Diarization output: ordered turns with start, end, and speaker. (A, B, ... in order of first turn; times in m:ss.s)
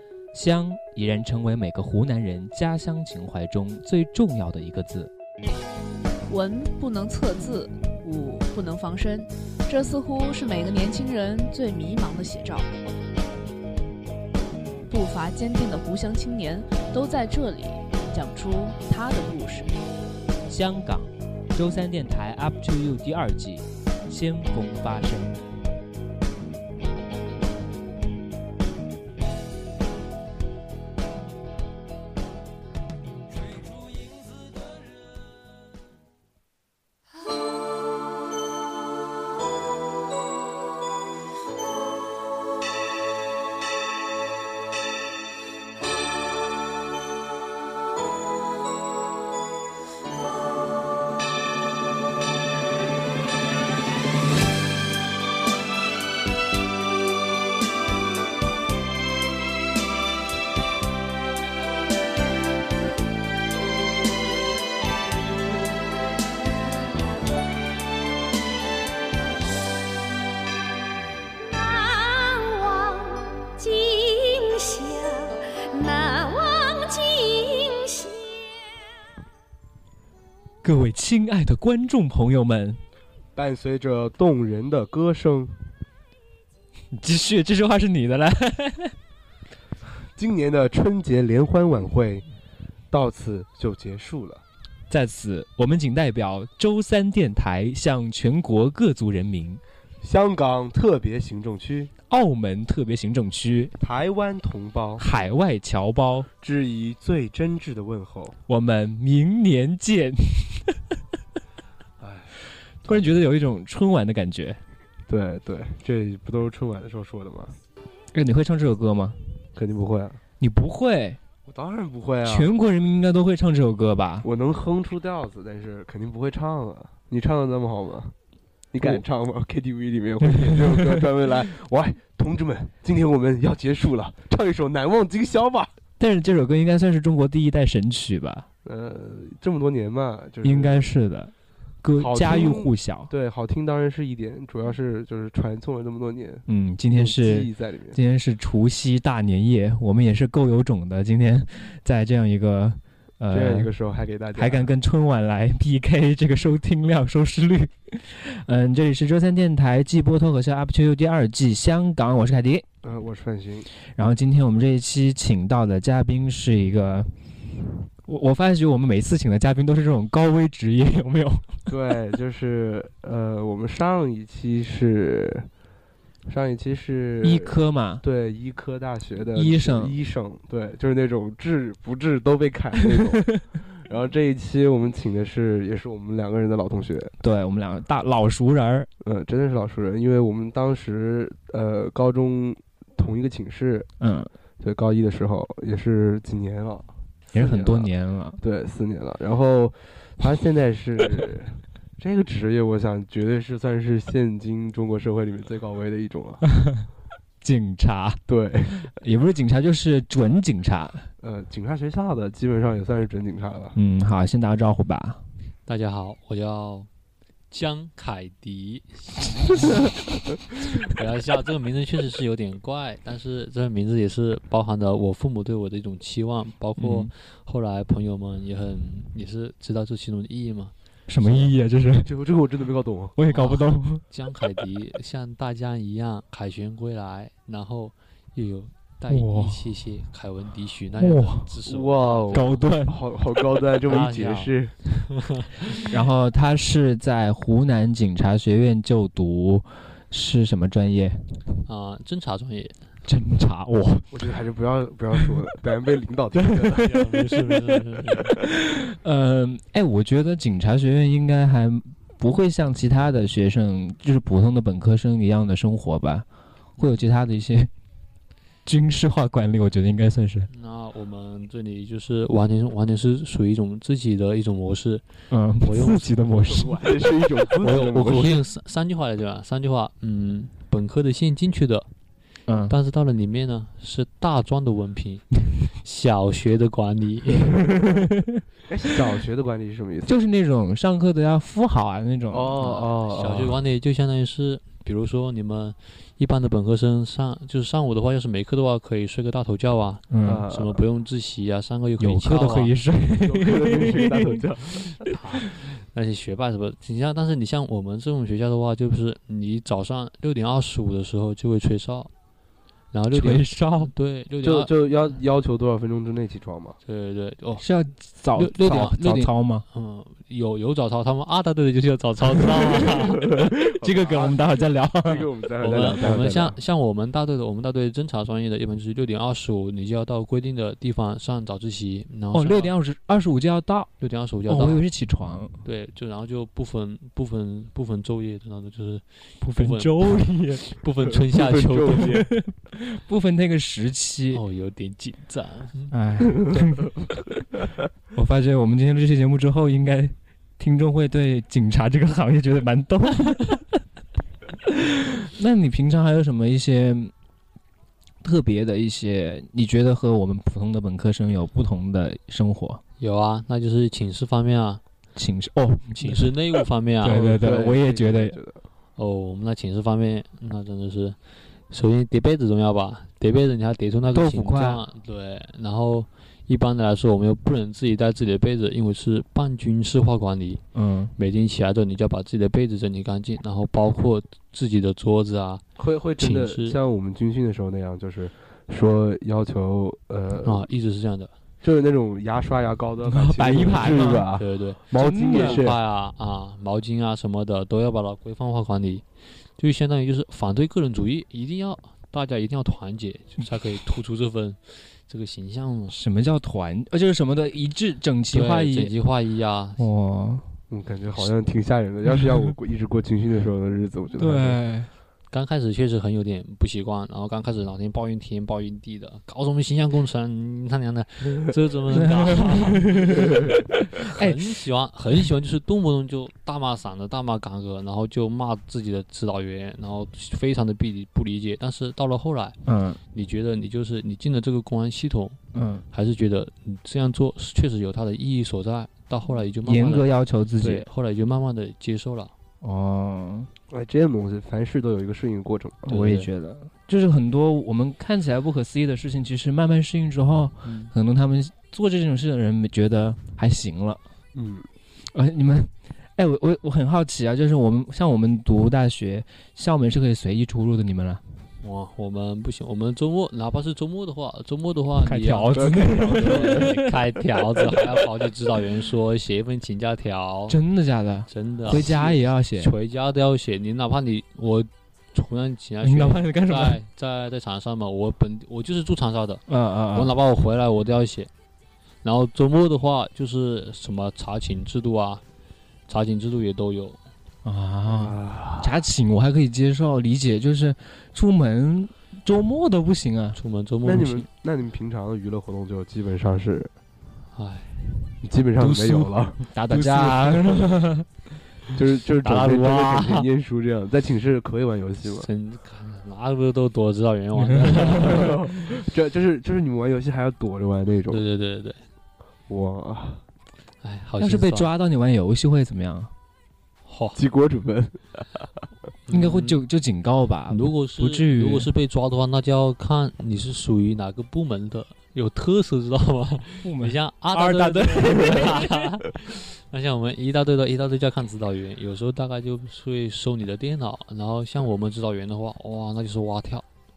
0:00.3-0:05.1 A
0:06.3-0:12.7 B
0:14.9-0:19.8 B
0:20.5-0:25.4 A
1:11.4-1:18.6 C
1:20.6-1:22.8 A
1:23.4-1:25.5 D
1:26.9-1:29.0 A
1:30.2-1:32.2 D
1:32.9-1:34.4 D
1:34.9-1:39.6 A
1:40.0-1:41.9 D
1:42.1-1:43.8 A
1:43.8-1:45.1 D
1:45.0-1:46.3 A
1:46.4-1:48.4 D
1:48.5-1:50.8 A
1:52.0-1:52.3 D
1:52.8-1:53.2 D
1:52.9-1:54.6 A
1:55.1-1:57.6 D
1:58.1-1:59.2 A
1:59.6-2:00.2 D
2:00.4-2:01.2 A
2:01.5-2:02.5 D
2:02.2-2:04.3 A
2:04.2-2:08.1 D
2:08.7-2:15.7 D
2:10.2-2:11.1 A
2:16.0-2:18.5 A
2:18.6-2:20.9 D
2:20.4-2:23.1 A
2:22.0-2:28.0 D
2:26.5-2:33.7 A
2:33.3-2:34.7 D
2:34.4-2:42.7 A
2:42.8-2:43.7 D
2:43.9-2:47.1 A
2:48.0-2:51.6 A
2:51.7-2:55.5 D
2:56.3-3:07.1 D
2:57.2-2:58.0 A
2:59.4-3:00.0 A
3:02.9-3:03.4 A
3:07.2-3:08.9 A
3:09.0-3:13.9 D
3:14.0-3:14.3 A
3:14.6-3:26.5 D
3:17.3-3:18.4 A
3:26.5-3:26.8 A
3:27.4-3:31.1 A
3:28.3-3:28.8 D
3:31.2-3:33.8 D
3:33.8-3:35.2 A
3:35.7-3:36.9 E
3:37.5-3:39.9 E
3:40.7-3:51.5 E
3:46.8-3:47.1 A
3:51.1-3:52.1 A
3:52.0-3:53.2 D
3:53.2-3:54.0 A
3:53.3-4:02.7 E
3:59.1-3:59.6 A
4:01.0-4:01.5 A
4:01.7-4:04.7 D
4:02.3-4:03.0 A
4:03.8-4:04.5 E
4:05.2-4:05.8 E
4:05.8-4:11.2 A
4:11.7-4:12.8 E
4:13.1-4:14.2 A
4:14.1-4:17.0 D
4:16.7-4:18.4 E
4:18.4-4:26.3 A
4:26.8-4:27.7 A
4:28.7-4:30.5 A
4:30.5-4:35.0 E
4:35.3-4:37.2 A
4:35.6-4:36.1 E
4:36.4-4:38.4 D
4:37.5-4:41.9 E
4:42.5-4:42.7 A
4:42.7-4:45.3 E
4:45.8-4:47.8 E
4:47.6-4:48.4 A
4:48.7-4:50.2 D
4:50.1-4:52.7 A
4:52.3-4:53.6 D
4:52.6-5:02.7 E
5:00.1-5:00.4 A
5:00.2-5:00.8 D
5:02.0-5:04.4 A
5:03.2-5:05.0 D
5:05.1-5:12.1 E
5:12.9-5:14.7 E
5:13.1-5:13.9 A
5:14.4-5:16.8 D
5:16.9-5:17.7 E
5:17.6-5:19.6 A
5:18.4-5:23.3 E
5:22.9-5:26.6 D
5:23.3-5:25.3 A
5:25.6-5:32.7 E
5:32.3-5:33.9 A
5:34.0-5:34.9 E
5:34.5-5:35.5 A
5:35.6-5:42.2 E
5:39.4-5:40.6 A
5:41.3-5:42.3 D
5:42.0-5:44.4 A
5:44.3-5:46.0 E
5:45.9-5:47.0 A
5:48.1-5:53.8 A
5:54.7-5:57.1 A
5:58.2-6:02.8 A
6:03.0-6:04.8 E
6:05.2-6:06.4 A
6:05.9-6:07.4 E
6:07.0-6:08.4 A
6:07.1-6:08.6 D
6:09.0-6:11.2 E
6:11.7-6:20.6 E
6:14.1-6:14.8 A
6:20.7-6:21.1 A
6:21.2-6:25.6 E
6:25.8-6:30.7 D
6:26.2-6:26.8 E
6:30.4-6:31.3 E
6:31.6-6:35.8 D
6:33.1-6:34.3 A
6:34.3-6:39.0 E
6:34.9-6:35.6 A
6:39.6-6:46.0 E
6:45.9-6:48.9 A
6:48.3-6:49.8 E
6:49.8-6:50.5 A
6:50.7-6:54.6 D
6:54.2-6:54.9 A
6:55.3-7:03.4 E
7:01.9-7:04.4 A
7:04.0-7:12.6 E
7:12.6-7:13.0 A
7:13.1-7:15.4 E
7:15.5-7:15.8 A
7:15.9-7:22.3 E
7:19.6-7:20.9 A
7:22.6-7:23.5 A
7:23.7-7:26.1 D
7:25.9-7:26.3 E
7:25.9-7:34.0 A
7:30.6-7:30.9 E
7:34.3-7:34.7 D
7:35.1-7:41.2 A
7:41.6-7:50.6 E
7:45.0-7:46.8 A
7:45.5-7:46.8 D
7:50.5-7:52.7 A
7:51.3-7:52.0 E
7:51.7-7:52.2 D
7:52.6-8:01.3 E
7:55.8-7:56.8 A
7:59.5-8:00.1 A
8:02.0-8:05.2 E
8:05.9-8:07.0 E
8:07.4-8:13.4 A
8:07.9-8:08.8 D
8:13.4-8:14.3 E
8:13.8-8:16.7 D
8:17.4-8:17.9 E
8:18.2-8:19.4 D
8:18.6-8:19.1 E
8:19.5-8:21.1 A
8:19.7-8:20.8 E
8:21.8-8:25.3 D
8:22.2-8:23.3 E
8:25.1-8:28.4 E
8:27.4-8:28.4 A
8:27.8-8:31.2 D
8:31.1-8:31.8 E
8:32.5-8:33.2 D
8:33.8-8:34.7 E
8:34.2-8:36.1 A
8:36.9-8:37.2 E
8:37.2-8:38.2 D
8:39.1-8:39.6 E
8:39.1-8:41.7 A
8:40.5-8:56.6 E
8:46.6-8:48.7 A